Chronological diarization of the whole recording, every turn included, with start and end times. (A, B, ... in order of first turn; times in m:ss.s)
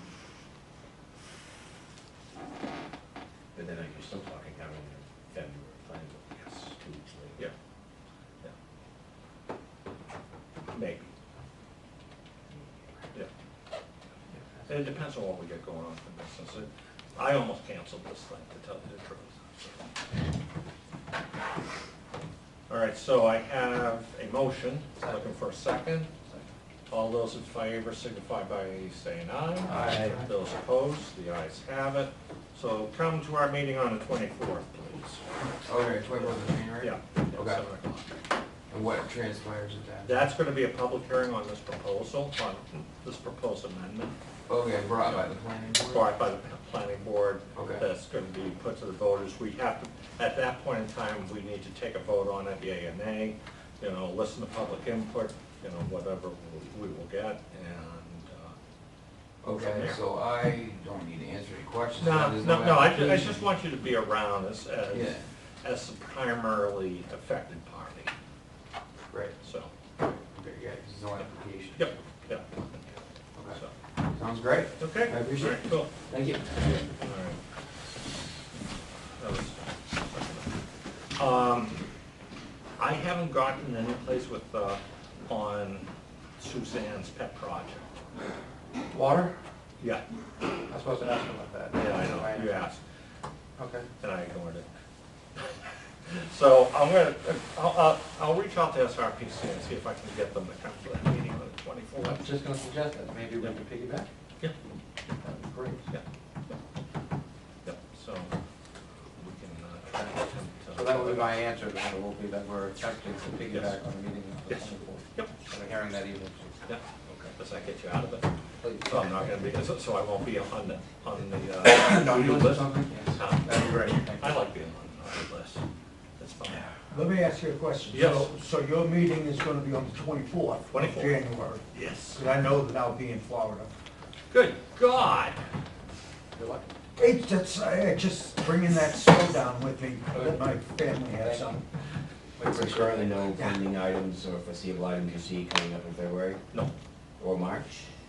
0:03.5-0:07.4 A
0:06.4-0:06.7 B
0:10.7-0:11.1 B
0:14.6-0:19.8 B
0:22.7-0:26.1 B
0:25.0-0:25.3 C
0:26.9-0:35.2 B
0:29.6-0:30.3 D
0:35.6-0:37.6 D
0:36.8-0:38.1 B
0:38.7-0:40.3 D
0:40.0-0:44.1 B
0:44.5-0:46.1 D
0:45.8-0:58.5 B
0:47.5-0:47.8 D
0:59.4-1:03.4 D
0:59.5-1:00.0 B
1:02.0-1:08.1 B
1:04.9-1:05.2 D
1:09.1-1:09.3 C
1:09.4-1:09.7 B
1:10.3-1:11.8 D
1:11.8-1:13.0 B
1:13.4-1:16.9 D
1:14.8-1:15.9 B
1:17.0-1:17.4 B
1:19.2-1:20.5 B
1:21.2-1:21.8 B
1:22.8-1:27.9 B
1:28.9-1:29.4 C
1:30.7-1:32.6 C
1:31.7-1:32.8 B
1:33.6-1:33.9 C
1:34.0-1:34.7 B
1:36.0-1:42.3 B
1:42.1-1:44.1 C
1:45.2-1:45.8 C
1:45.9-1:46.6 B
1:47.6-1:48.3 B
1:49.1-1:51.3 B
1:50.7-1:56.6 C
1:53.5-1:53.8 B
1:54.5-1:55.3 B
1:56.6-2:05.6 B
1:58.6-1:59.5 C
2:01.6-2:04.4 C
2:06.2-2:06.7 B
2:06.9-2:13.7 E
2:07.9-2:08.3 B
2:10.7-2:11.2 B
2:11.7-2:12.2 B
2:14.3-2:15.4 B
2:16.3-2:17.1 C
2:17.0-2:21.6 E
2:20.1-2:20.5 C
2:21.1-2:21.6 C
2:22.4-2:23.4 C
2:22.4-2:26.4 A
2:27.2-2:27.9 A